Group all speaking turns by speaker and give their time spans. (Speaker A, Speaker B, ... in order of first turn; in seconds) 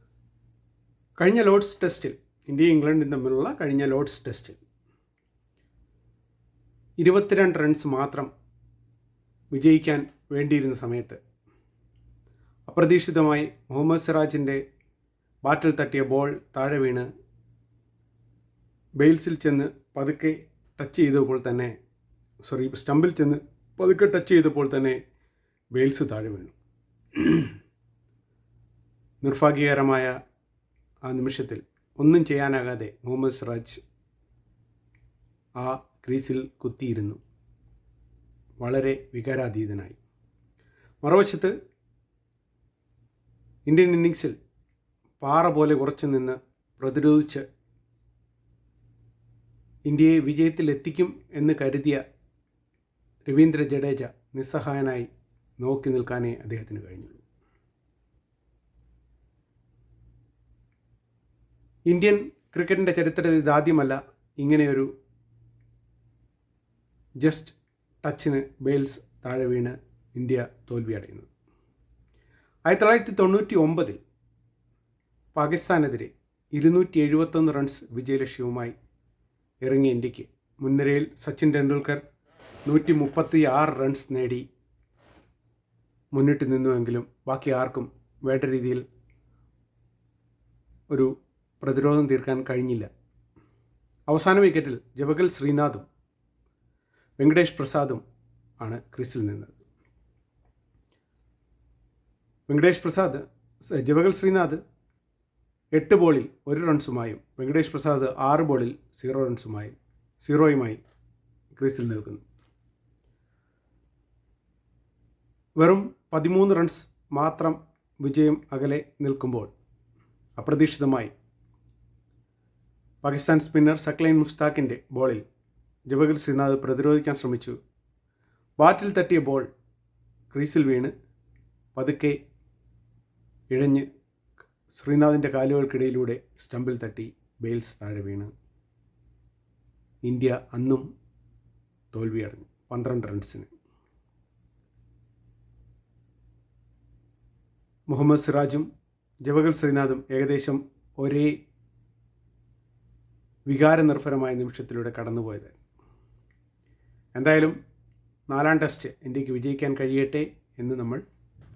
Speaker A: 1.2-4.6, 7.0-8.3, 9.5-11.2, 12.7-14.6, 15.4-17.1, 19.0-21.7, 22.4-25.0, 25.7-26.5, 27.1-27.5, 29.2-30.1, 31.1-33.8, 35.6-37.2, 38.6-40.0, 41.0-41.5, 43.7-44.3, 45.2-47.4, 49.9-52.0, 53.3-55.1, 55.6-57.2, 61.9-64.9, 67.2-71.3, 72.7-74.0, 75.3-78.7, 79.6-82.0, 82.7-84.4, 86.1-88.8, 90.9-92.9, 94.1-95.8, 97.2-98.0, 98.6-99.5, 102.5-104.6, 105.7-110.8, 111.5-112.2, 115.6-119.5, 120.4-121.1, 123.0-125.2, 125.9-127.5, 128.6-129.4, 130.3-130.9, 131.7-132.2, 133.5-133.9, 134.7-138.3, 140.0-140.8, 141.9-143.5, 147.9-148.7, 149.2-151.3, 153.5-155.6, 157.1-157.5, 158.3-161.0